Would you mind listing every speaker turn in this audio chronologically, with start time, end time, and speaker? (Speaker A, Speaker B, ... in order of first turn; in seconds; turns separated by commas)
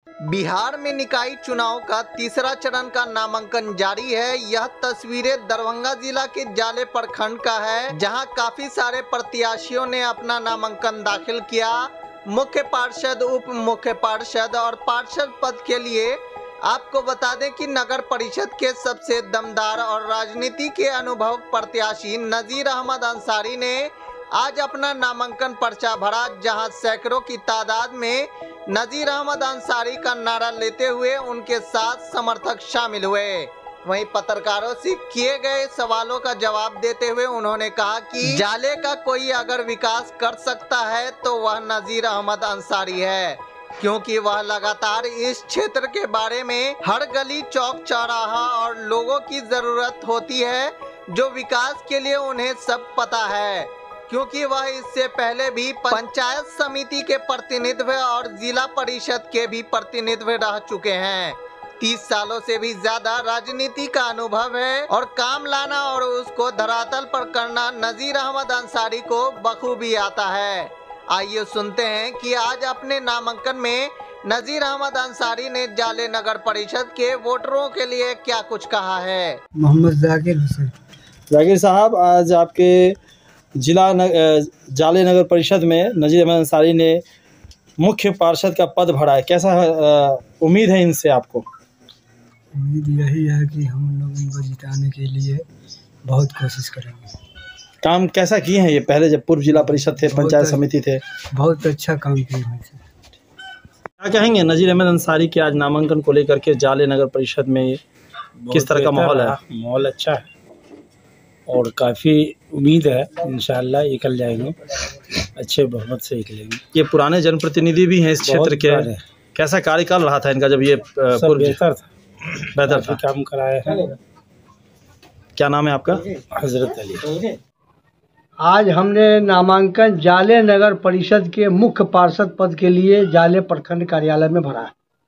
Speaker A: 0.3-79.4, Speaker B: 79.6-80.7, Speaker C: 81.3-83.0, Speaker C: 83.6-87.0, Speaker C: 87.8-91.5, Speaker B: 92.6-95.5, Speaker B: 96.1-97.1, Speaker C: 97.8-101.0, Speaker B: 99.6-100.6, Speaker B: 101.3-102.8, Speaker C: 104.0-107.8, Speaker D: 108.4-110.3, Speaker C: 108.5-109.3, Speaker D: 111.5-116.6, Speaker C: 116.7-121.6, Speaker D: 118.2-119.0, Speaker D: 121.1-124.0, Speaker C: 122.6-123.0, Speaker C: 125.4-126.0, Speaker D: 126.3-127.3, Speaker E: 128.4-134.7